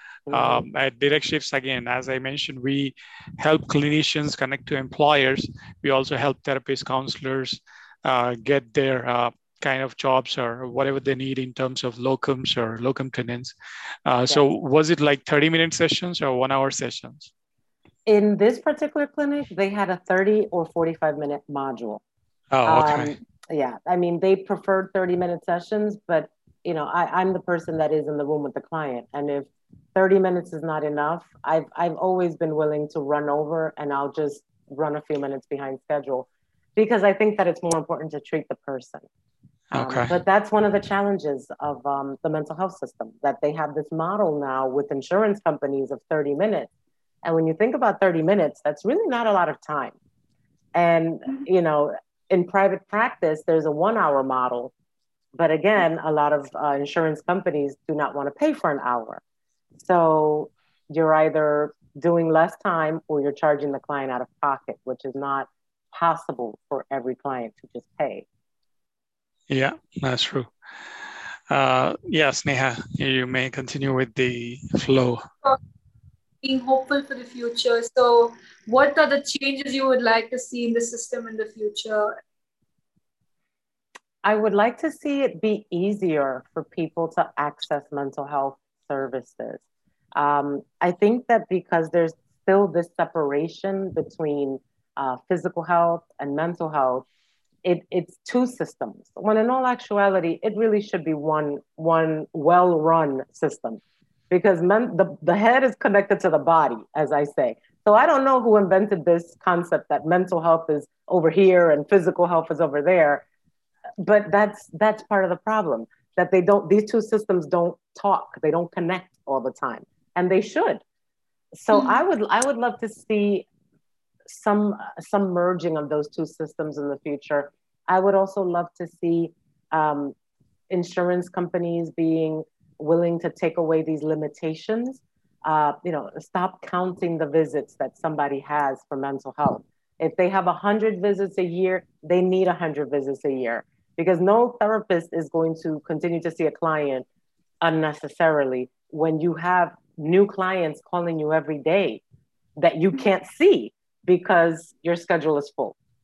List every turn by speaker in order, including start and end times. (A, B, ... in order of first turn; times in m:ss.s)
0:00.3-0:00.6 A
0:00.3-0:13.5 B
0:14.0-0:17.3 B
0:18.0-0:22.0 A
0:22.5-0:23.1 B
0:22.6-0:39.0 A
0:39.7-0:40.1 B
0:39.7-0:46.7 A
0:47.2-0:50.0 A
0:50.7-0:54.7 A
0:55.3-0:59.2 A
0:59.8-1:08.2 A
1:09.5-1:10.5 B
1:11.5-1:15.3 B
1:16.4-1:22.2 C
1:24.2-1:29.6 A
1:30.2-1:37.0 A
1:37.6-1:53.2 A
1:54.0-2:00.8 A
2:01.6-2:03.4 A
2:01.7-2:02.0 C
2:04.3-2:10.1 A
2:10.7-2:27.0 A
2:27.6-2:32.0 A
2:32.6-2:35.7 A